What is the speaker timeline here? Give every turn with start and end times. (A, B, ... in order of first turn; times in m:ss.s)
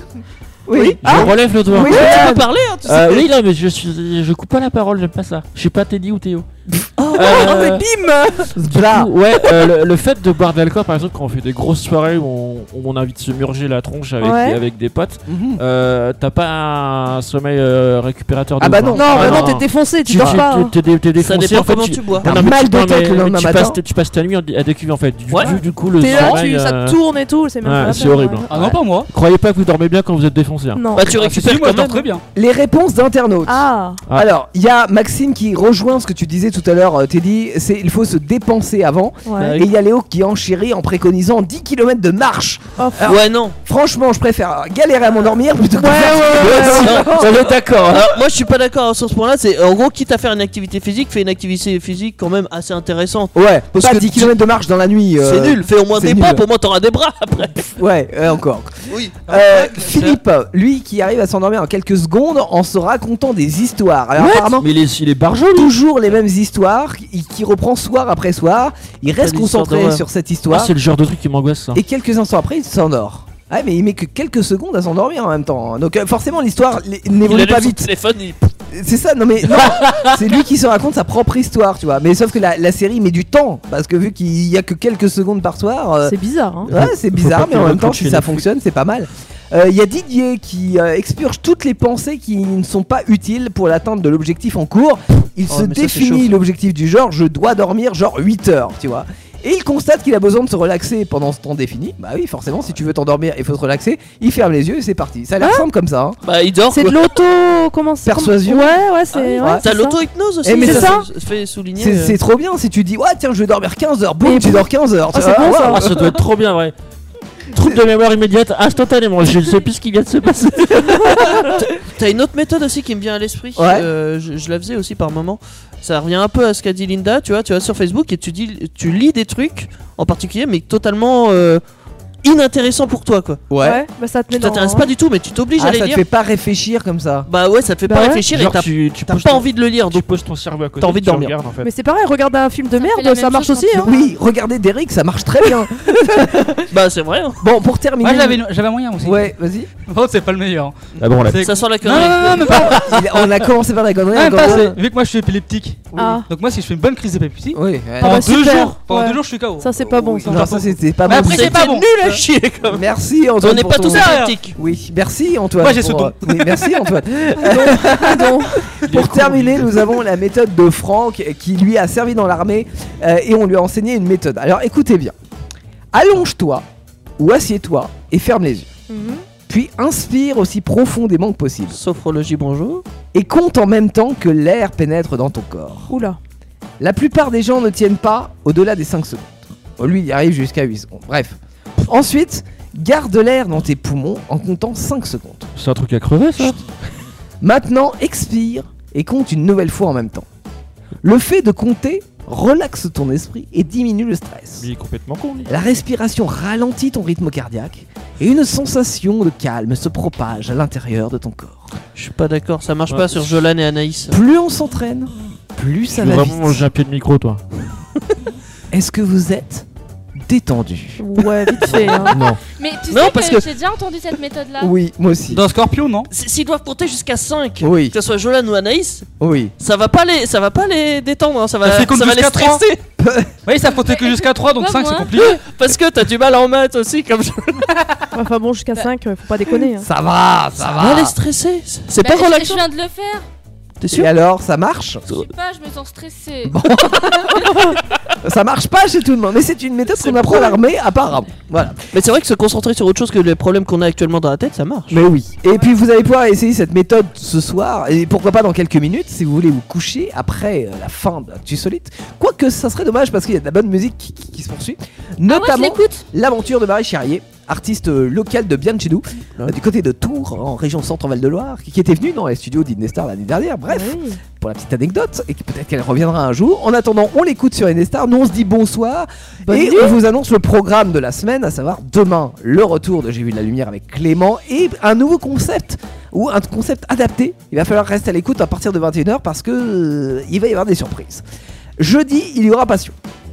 0:00.7-0:02.4 A
0:00.7-0:01.3 B
0:01.0-0:06.5 C
0:01.0-0:02.4 D
0:01.8-0:03.3 B
0:06.8-0:07.8 A
0:07.1-0:07.9 C
0:07.4-0:07.8 D
0:08.5-0:09.1 A
0:08.7-0:27.0 C
0:14.2-0:14.6 D
0:15.3-0:15.6 A
0:18.6-0:19.6 A
0:19.0-0:20.8 D
0:20.2-0:20.4 A
0:21.2-0:22.3 B
0:22.2-0:23.8 A
0:25.3-0:25.6 B
0:26.0-0:28.5 D
0:27.6-0:28.5 C
0:28.5-0:29.1 E
0:29.1-0:30.9 C
0:30.8-0:31.2 D
0:31.0-0:32.1 B
0:31.0-0:32.2 E
0:32.3-0:48.0 A
0:33.5-0:34.0 D
0:39.3-0:39.5 D
0:39.4-0:39.7 B
0:42.8-0:43.2 D
0:43.0-0:43.6 B
0:45.8-0:47.1 D
0:46.2-0:47.3 B
0:46.6-0:48.0 C
0:47.9-0:54.3 B
0:53.3-0:56.4 A
0:55.2-0:57.8 B
0:57.8-0:58.7 A
0:58.9-0:59.2 B
0:59.3-1:00.2 E
0:59.3-1:04.7 A
1:04.2-1:05.7 C
1:05.5-1:10.7 A
1:09.2-1:10.0 B
1:10.5-1:11.8 C
1:11.8-1:17.9 A
1:17.2-1:18.4 B
1:18.7-1:26.2 A
1:26.0-1:26.7 D
1:26.6-1:28.4 C
1:26.7-1:46.2 A
1:35.5-1:36.4 B
1:45.4-1:45.7 D
1:46.2-1:47.1 B
1:46.7-1:51.0 D
1:48.0-1:49.6 A
1:49.6-1:52.2 B
1:50.4-1:51.0 A
1:51.8-1:56.2 A
1:54.2-1:55.9 D
1:55.6-1:56.7 C
1:57.5-2:01.6 C
2:01.9-2:11.6 B
2:03.6-2:03.9 A
2:12.2-2:13.4 B
2:13.5-2:13.8 A
2:13.6-2:14.9 D
2:14.3-2:16.0 B
2:15.6-2:17.3 A
2:17.3-2:20.2 B
2:17.9-2:18.2 D
2:18.3-2:21.7 C
2:20.8-2:21.3 B
2:21.6-2:23.9 D
2:22.8-2:24.1 F
2:23.7-2:26.7 A
2:26.7-2:27.4 B
2:27.4-2:28.4 A
2:28.0-2:29.3 E
2:29.0-2:29.7 A
2:29.9-2:32.9 E
2:31.0-2:31.4 C
2:31.3-2:32.8 B
2:32.4-2:34.8 A
2:34.1-2:39.7 E
2:35.9-2:36.2 A
2:36.0-2:36.3 D
2:37.5-2:38.3 A
2:38.0-2:40.5 D
2:39.8-2:42.0 A
2:40.3-2:41.9 E
2:41.1-2:42.9 B
2:42.7-2:55.2 A
2:43.4-2:44.5 B
2:43.9-2:44.3 E
2:45.6-2:46.8 E
2:47.4-2:48.6 D
2:48.9-2:49.8 E
2:55.9-2:56.6 A
2:57.2-2:58.7 A
2:58.9-2:59.2 D
2:59.5-3:01.8 A
3:01.7-3:02.8 B
3:03.1-3:05.9 A
3:05.9-3:06.2 D
3:06.8-3:15.5 A
3:15.6-3:16.7 C
3:17.4-3:20.3 A
3:21.0-3:24.7 A
3:24.6-3:25.5 C
3:25.5-3:31.7 A
3:32.0-3:34.2 B
3:34.1-3:36.6 A
3:35.9-3:37.4 C
3:38.7-3:39.7 A
3:40.2-3:41.0 A
3:41.0-3:42.2 D
3:42.0-3:42.4 A
3:42.1-3:44.7 F
3:42.9-3:43.5 B
3:44.6-3:45.4 A
3:45.3-3:46.1 E
3:46.1-3:49.1 B
3:47.6-3:48.0 A
3:49.2-3:49.5 A
3:49.6-3:52.8 B
3:51.6-3:52.6 E
3:53.0-3:53.3 A
3:53.5-3:55.4 E
3:53.7-3:55.2 F
3:55.1-3:57.7 B
3:58.1-3:59.9 D
3:59.8-4:01.2 A
4:00.6-4:02.6 B
4:02.0-4:03.3 F
4:03.8-4:04.1 B
4:03.9-4:05.0 A
4:05.1-4:07.4 F
4:06.4-4:07.6 A
4:08.2-4:11.8 A
4:10.0-4:10.6 B
4:11.9-4:15.0 B
4:14.9-4:51.2 A
4:15.5-4:15.8 F
4:25.3-4:26.0 F
4:33.7-4:34.2 D
4:39.5-4:40.0 D
4:51.8-4:52.9 A